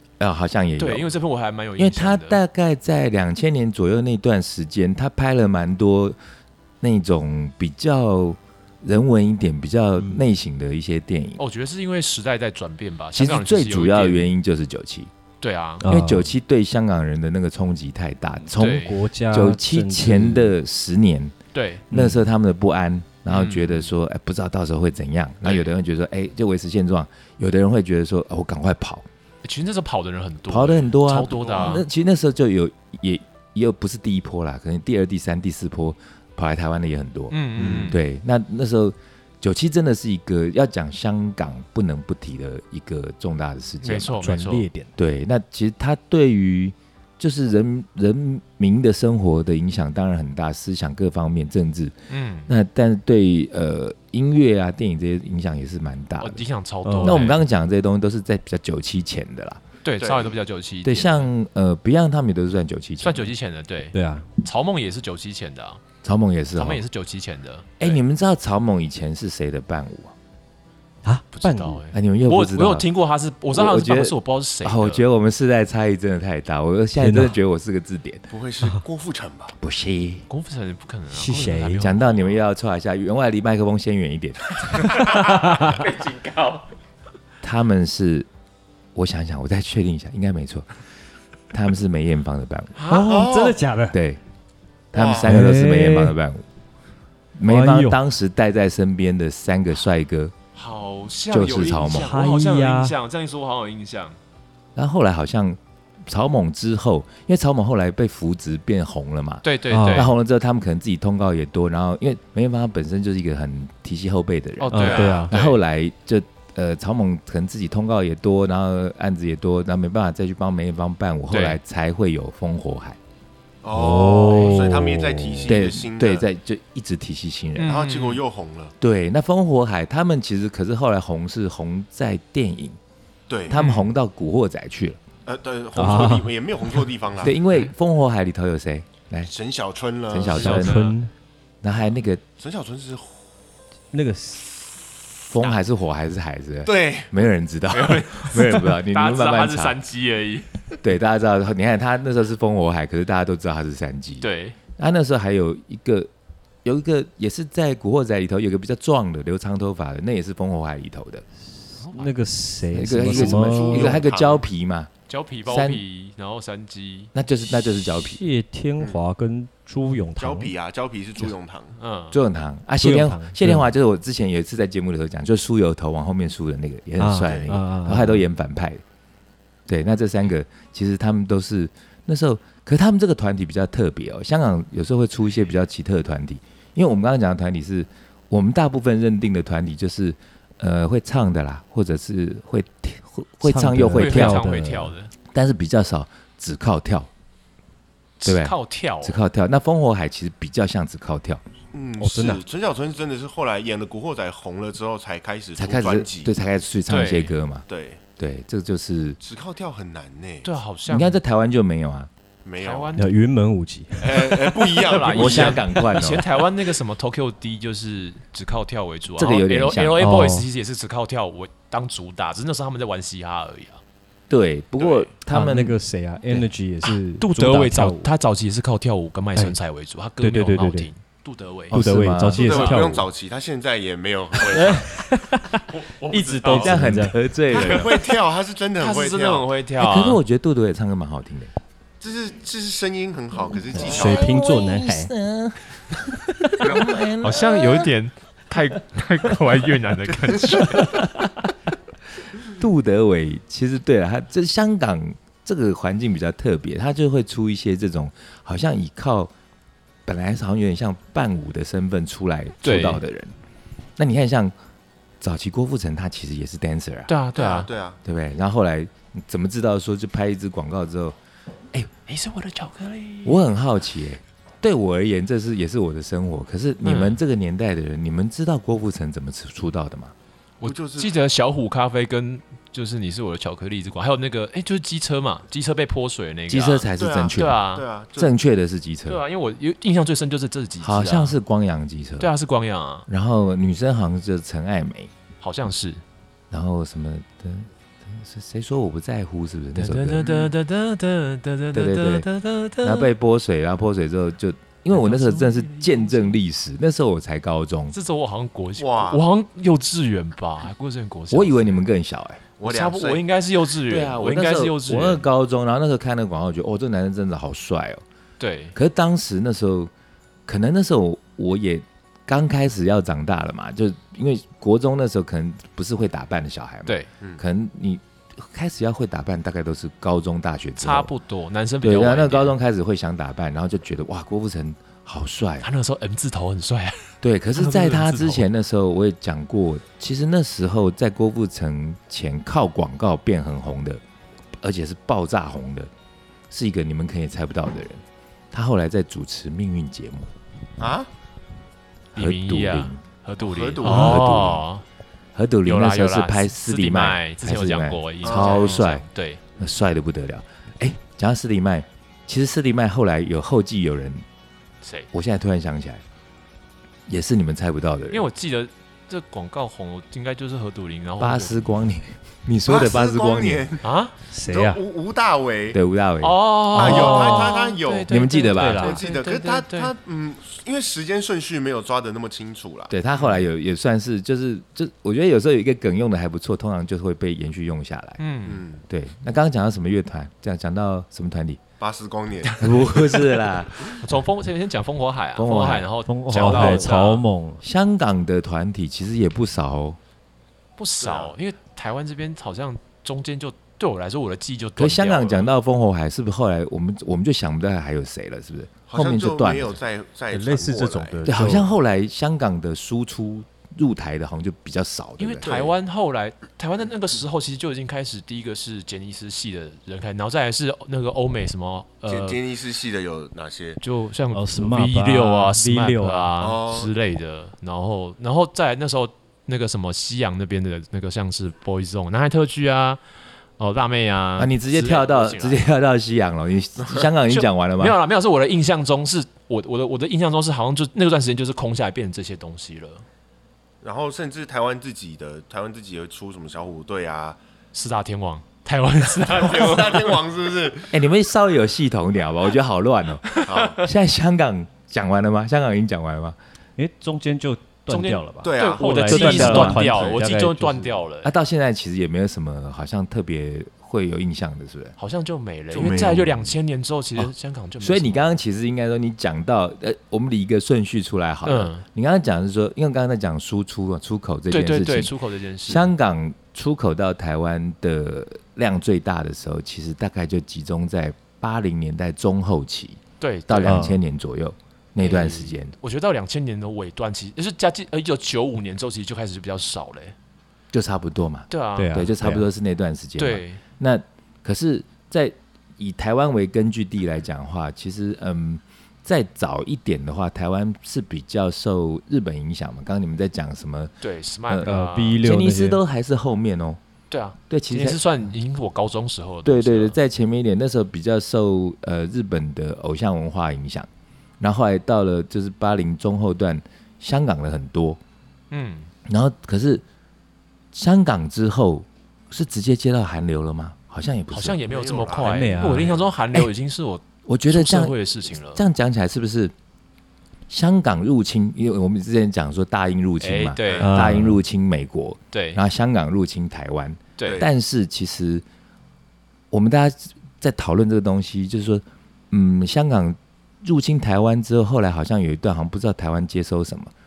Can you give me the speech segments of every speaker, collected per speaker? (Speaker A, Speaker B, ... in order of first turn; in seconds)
Speaker A: 0.2-1.1, 1.8-6.2, 6.8-11.4, 13.1-15.1, 15.9-21.3, 21.9-29.1, 30.5-44.3, 45.0-52.0, 52.5-56.4, 57.0-59.6, 60.8-63.3, 66.0-66.8, 67.8-70.1, 71.9-72.9, 73.5-78.3, 79.6-80.3, 81.8-85.1, 87.4-88.3, 89.0-90.7, 91.5-92.8, 93.9-94.2, 94.9-96.5, 97.4-100.3, 101.3-102.2, 104.8-123.0, 125.5-127.8, 128.8-132.8, 133.5-135.0, 137.2-139.3, 140.1-140.9, 141.6-142.2, 145.3-149.8, 150.8-156.1, 156.6-161.2, 162.7-164.9, 165.5-165.8, 167.1-168.2, 172.1-178.8, 179.7-194.5, 195.3-197.1, 198.2-201.4, 205.6-207.7, 208.2-209.2, 210.9-212.1, 215.1-216.3, 219.2-220.0, 224.3-225.8, 231.7-232.8, 236.5-237.9, 239.8-241.5, 243.8-245.9, 246.5-247.9, 250.5-251.3, 252.4-259.3, 260.1-263.3, 264.0-264.5, 265.2-267.1, 268.1-271.2, 273.2-280.1, 286.5-287.6, 288.2-289.2, 290.8-292.3, 293.1-295.1, 296.5-300.3, 301.7-302.3, 302.8-307.9, 311.3-312.4, 313.9-318.0, 318.7-319.9, 320.5-331.1, 331.8-335.7, 337.2-344.0, 344.6-345.9, 346.5-350.3, 352.2-353.0, 353.8-354.7, 355.4-359.0, 359.6-364.2, 365.1-366.0, 367.1-368.3, 371.2-373.7, 375.7-377.1, 378.1-379.0, 382.9-388.2, 388.9-391.6, 392.6-393.9, 395.4-395.9, 396.5-396.9, 397.6-400.0, 404.8-409.8, 411.2-415.5, 434.4-438.0, 450.9-456.4, 459.1-459.9, 461.2-465.0, 465.8-466.3, 467.2-475.1, 475.7-485.7, 490.7-503.9, 504.5-506.8, 507.5-508.0, 509.4-513.9, 514.4-518.0, 519.1-519.8, 520.7-524.6, 527.3-528.0, 528.5-529.5, 530.5-538.4, 539.5-546.9
Speaker B: 0.8-2.4, 11.4-14.3, 15.4-15.9, 18.6-18.9, 21.5-21.9, 23.3-23.9, 25.4-25.7, 29.4-31.9, 37.3-38.0, 43.8-44.7, 52.1-52.5, 56.2-57.4, 59.8-61.3, 63.0-65.8, 66.5-68.0, 71.3-75.0, 80.3-82.4, 85.7-86.6, 92.8-93.3, 100.5-104.2, 109.4-110.2, 114.6-115.6, 121.3-121.6, 124.3-124.6, 127.6-128.2, 133.5-133.9, 140.3-141.0, 147.7-150.8, 154.2-154.6, 161.8-162.1, 165.1-167.1, 171.8-172.2, 193.9-195.1, 198.2-199.2, 206.9-207.3, 210.4-211.2, 212.6-213.1, 214.8-223.8, 226.9-231.8, 232.4-232.8, 235.7-238.1, 238.8-240.2, 247.2-251.0, 262.6-263.0, 267.1-267.7, 272.1-273.4, 276.8-277.2, 280.6-287.9, 289.1-291.4, 292.2-293.1, 295.4-296.0, 299.8-303.1, 304.9-306.4, 307.9-311.8, 312.6-315.2, 318.4-318.8, 330.8-332.6, 335.6-338.5, 352.1-354.8, 355.6-359.4, 364.8-365.1, 368.1-371.6, 373.8-374.1, 376.2-379.9, 388.2-388.6, 393.9-397.2, 400.8-405.5, 415.2-422.4, 423.8-433.0, 433.6-435.6, 437.3-443.0, 447.7-450.2, 453.2-453.7, 457.9-461.3, 465.0-468.3, 471.4-471.9, 474.5-475.9, 483.2-483.9, 485.0-490.1, 491.5-492.0, 493.2-493.6, 504.0-505.2, 507.1-510.0, 518.5-518.9, 524.3-528.6, 533.2-533.9, 535.3-535.6, 537.2-537.5
Speaker C: 15.8-16.3, 18.5-20.6, 21.9-22.2, 44.2-44.9, 56.9-57.3, 63.9-64.3, 71.0-71.8, 77.0-77.4, 81.1-81.9, 84.8-85.8, 92.9-94.0, 95.2-96.2, 97.4-98.0, 101.9-103.0, 109.7-110.1, 114.7-115.3, 123.7-125.6, 135.8-136.3, 140.3-141.1, 143.9-144.7, 161.8-164.0, 168.0-170.5, 172.8-173.7, 177.0-178.2, 193.4-194.9, 202.0-202.4, 213.0-214.8, 220.0-220.5, 225.3-228.1, 230.2-230.9, 231.7-233.1, 234.5-237.2, 243.7-245.1, 374.3-374.8, 376.7-377.6, 378.6-379.0, 396.1-397.6, 410.3-411.7, 424.3-426.3, 456.8-461.0, 483.6-484.0, 491.8-492.5, 504.6-505.8, 525.2-525.9, 533.8-534.4
Speaker D: 31.3-31.8, 37.6-38.0, 60.0-60.3, 78.3-79.5, 92.9-93.6, 94.9-95.3, 123.6-126.3, 127.6-128.7, 133.3-133.6, 135.2-137.4, 139.3-140.7, 142.4-143.2, 146.7-147.2, 163.0-164.4, 170.2-171.8, 177.2-177.5, 201.7-206.3, 207.7-208.0, 209.2-210.5, 212.4-213.0, 214.0-215.6, 232.4-234.9, 237.5-239.5, 242.0-244.3, 246.6-246.9, 267.4-268.0, 280.6-281.2, 287.0-288.3, 300.2-300.5, 308.8-309.2, 312.6-313.2, 350.8-351.1, 353.4-354.3, 358.2-358.8, 372.7-373.9, 374.5-375.8, 376.7-378.1, 378.7-383.4, 388.4-388.8, 391.8-394.0, 401.0-401.4, 408.9-411.2, 415.4-415.8, 422.1-423.8, 426.4-426.9, 443.8-447.4, 449.2-450.9, 453.5-453.8, 458.4-460.2, 465.7-466.4, 524.7-526.1